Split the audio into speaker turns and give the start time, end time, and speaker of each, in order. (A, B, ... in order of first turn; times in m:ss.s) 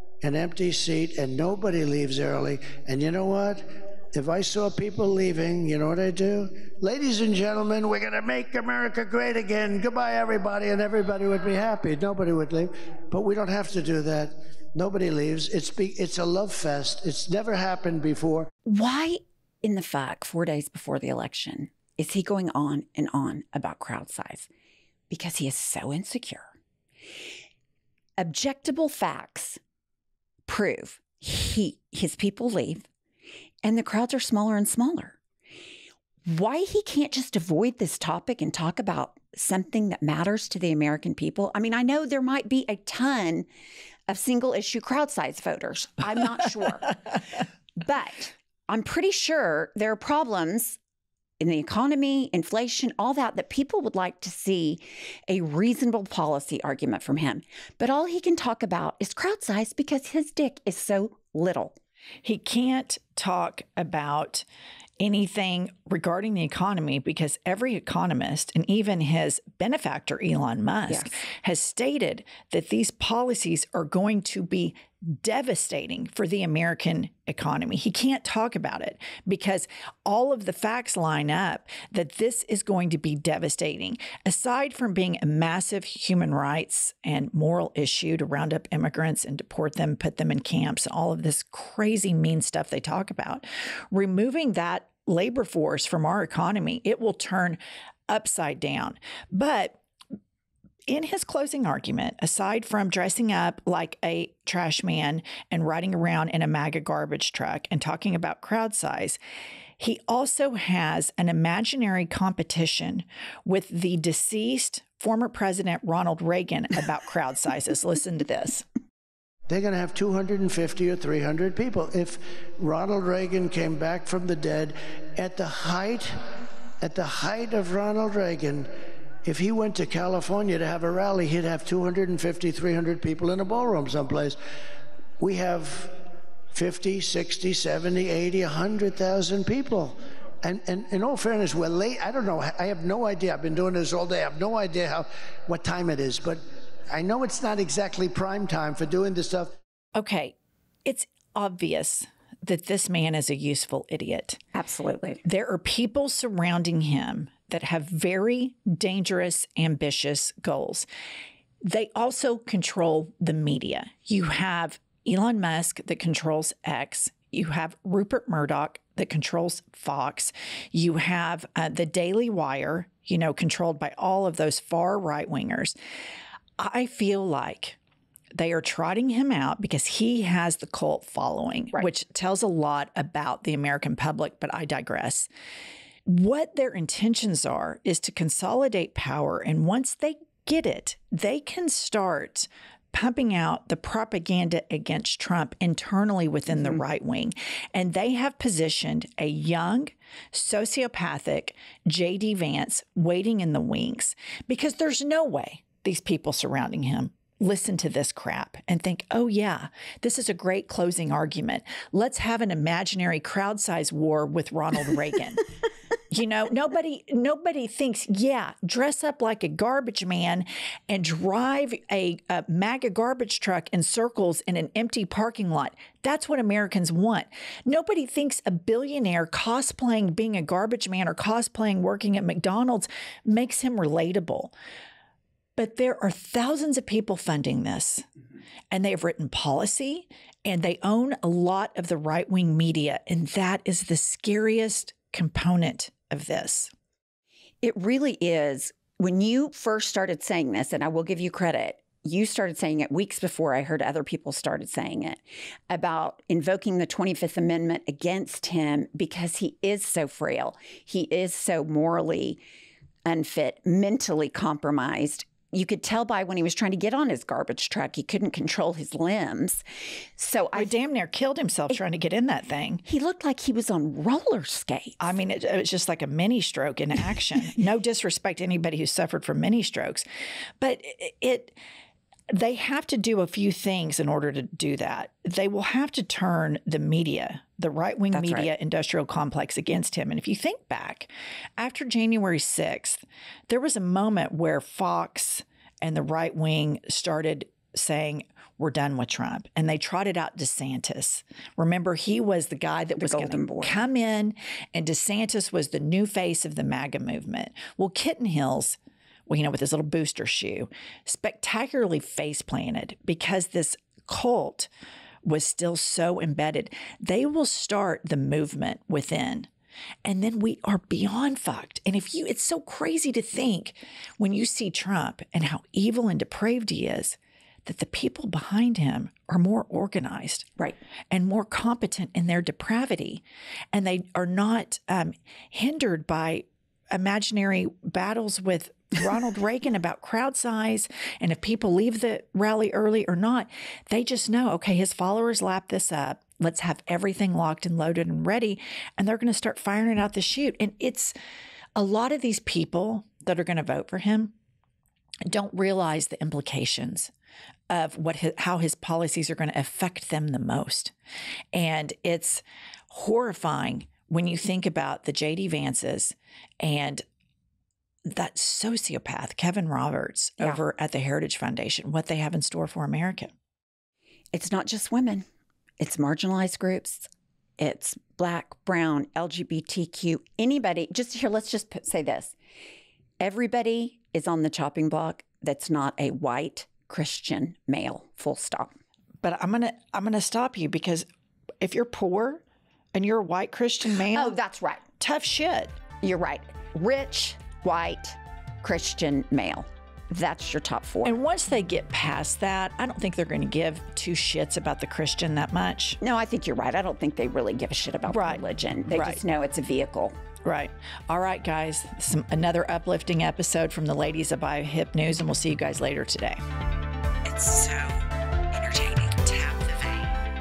0:00.2-0:18.5 A
0:18.7-0:24.5 B
0:25.1-0:26.5 B
0:28.2-0:29.6 B
0:30.5-0:32.9 B
0:33.6-0:35.2 B
0:36.3-0:43.5 B
0:44.1-0:50.8 B
0:51.4-1:01.8 B
1:02.2-1:04.5 C
1:05.0-1:39.8 C
1:40.9-1:49.2 C
1:49.8-1:58.6 C
1:59.5-2:06.1 A
2:06.8-2:08.7 A
2:09.2-2:14.4 A
2:15.2-2:16.0 A
2:16.5-2:29.5 A
2:30.0-2:34.4 C
2:34.5-2:35.2 B
2:35.2-2:40.9 C
2:41.6-2:55.8 C
2:56.6-2:57.8 C
2:58.4-3:05.3 C
3:06.1-3:35.5 C
3:36.1-3:54.5 C
3:55.6-3:58.0 C
3:58.7-4:06.7 C
4:07.6-4:22.4 B
4:23.0-4:29.6 B
4:30.2-4:30.8 B
4:30.6-4:32.8 C
4:32.9-4:35.1 B
4:35.0-4:40.0 C
4:40.6-4:41.6 C
4:42.3-5:14.7 C
4:48.1-4:48.5 B
5:03.0-5:03.8 B
5:15.2-5:19.5 C
5:20.0-5:30.5 C
5:31.1-5:51.2 C
5:51.8-5:54.3 C
5:55.3-5:57.1 C
5:57.7-6:00.9 C
6:01.5-6:07.0 C
6:08.1-6:13.3 C
6:14.3-6:15.2 B
6:15.8-6:22.4 B
6:23.2-6:28.7 B
6:29.2-6:31.0 C
6:31.6-6:32.4 C
6:33.0-6:34.4 C
6:33.9-6:34.8 B
6:35.0-6:35.8 C
6:36.0-6:41.2 B
6:41.0-6:46.0 C
6:46.0-6:50.2 B
6:48.1-6:49.2 C
6:50.4-6:56.4 C
6:57.3-6:58.0 C
6:58.5-6:59.0 B
6:58.8-7:00.2 C